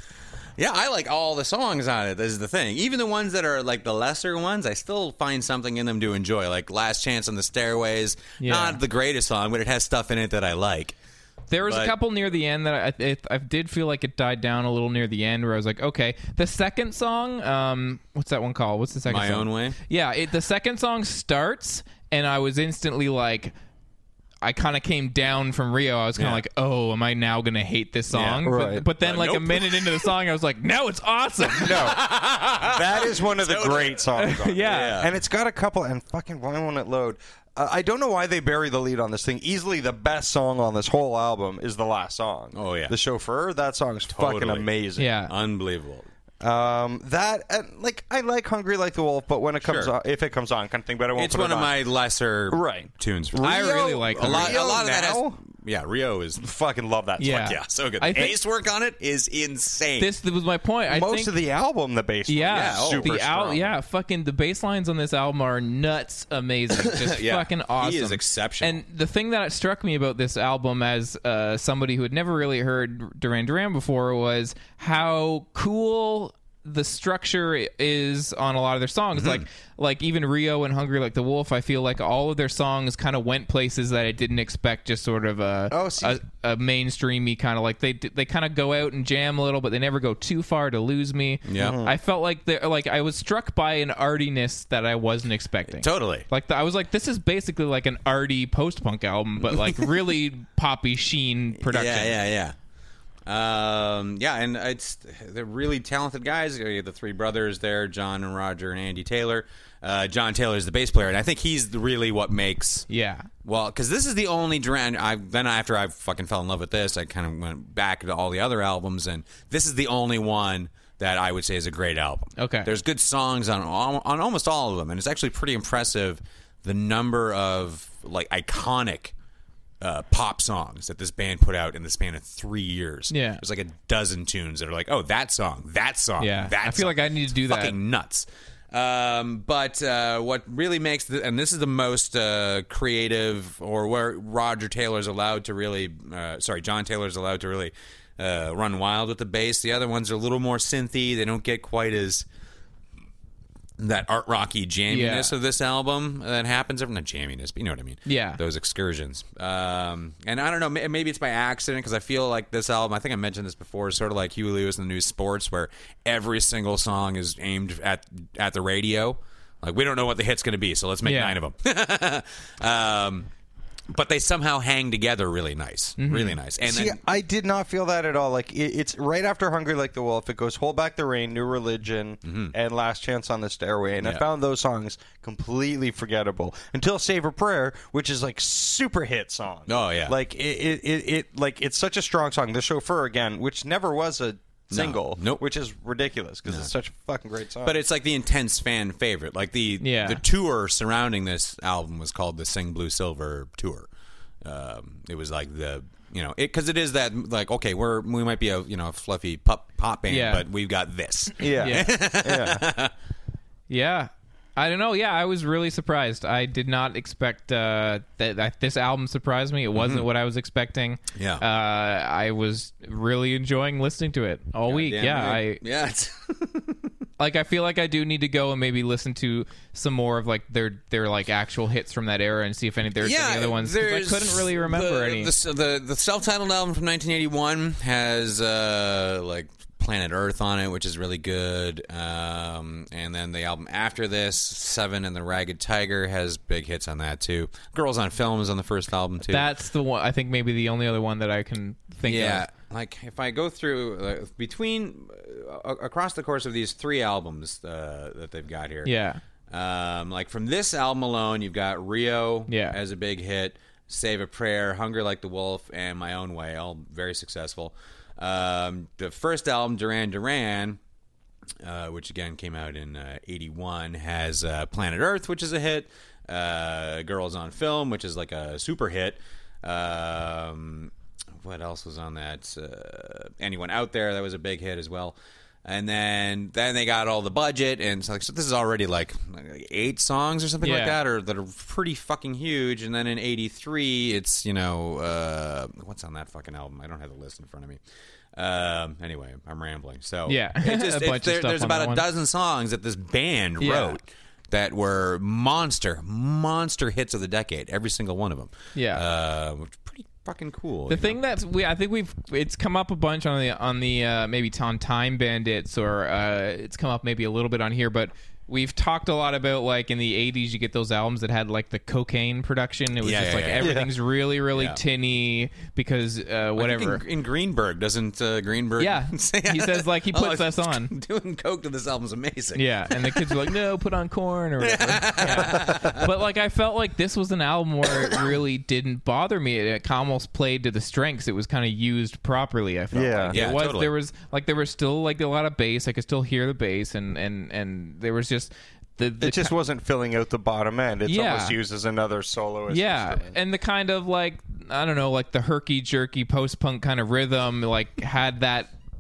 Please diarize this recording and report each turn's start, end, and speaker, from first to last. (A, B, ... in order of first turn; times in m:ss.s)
0:00.6-0:11.0 A
0:08.4-0:08.8 B
0:11.5-0:23.5 B
0:11.6-0:12.0 A
0:19.1-0:19.8 A
0:24.4-0:32.0 B
0:26.2-0:26.4 A
0:28.1-0:30.1 A
0:28.4-0:28.8 C
0:31.6-0:45.1 C
0:31.6-0:34.1 A
0:34.2-0:35.0 B
0:34.6-0:35.1 A
0:42.5-0:43.0 A
0:44.1-0:44.7 A
0:45.0-0:45.3 B
0:45.3-0:46.1 A
0:46.4-0:51.7 C
0:49.6-0:49.9 A
0:51.2-0:56.5 A
0:52.5-0:55.4 C
0:53.4-0:54.6 B
0:56.4-0:57.4 C
0:57.2-0:58.3 B
0:57.2-1:00.1 A
1:00.0-1:01.3 B
1:00.9-1:03.7 C
1:02.3-1:42.2 B
1:02.4-1:03.1 A
1:06.8-1:08.8 A
1:19.2-1:19.4 A
1:25.7-1:26.2 C
1:31.5-1:31.8 A
1:31.6-1:31.9 C
1:35.8-1:36.3 A
1:39.4-1:40.0 A
1:41.6-1:42.5 A
1:43.3-1:52.9 A
1:52.9-1:53.3 B
1:53.4-2:09.1 A
2:02.4-2:02.7 B
2:09.8-2:32.2 A
2:13.1-2:13.4 B
2:16.2-2:17.8 B
2:33.8-2:53.3 A
2:34.9-2:35.3 B
2:38.1-2:38.4 B
2:51.0-2:51.4 B
2:53.9-2:57.0 A
2:56.0-2:56.4 B
2:56.6-3:17.8 C
3:02.2-3:02.5 A
3:09.7-3:10.2 A
3:14.7-3:15.4 A
3:17.6-3:23.9 A
3:19.8-3:20.2 B
3:24.4-3:32.9 A
3:30.1-3:30.4 B
3:31.4-3:32.7 C
3:31.6-3:31.9 B
3:33.7-3:45.6 B
3:39.7-3:40.1 A
3:41.2-3:41.4 A
3:44.7-3:46.9 A
3:47.2-3:55.3 B
3:53.0-4:09.5 A
4:09.3-4:12.4 B
4:12.1-4:18.9 A
4:18.8-4:19.2 B
4:19.5-4:30.8 A
4:22.5-4:22.8 B
4:31.6-4:57.8 A
4:50.6-4:51.0 B
4:58.4-5:11.2 A
5:00.3-5:02.0 B
5:03.6-5:04.0 B
5:08.8-5:09.0 B
5:10.9-5:27.0 B
5:23.0-5:23.8 A
5:23.6-5:23.9 C
5:24.5-5:24.8 A
5:26.6-5:33.5 A
5:28.8-5:30.9 B
5:32.6-5:49.5 B
5:34.6-5:36.0 A
5:42.9-5:43.4 C
5:43.3-5:43.9 A
5:49.2-5:53.4 C
5:51.1-5:51.6 B
5:52.7-5:58.7 B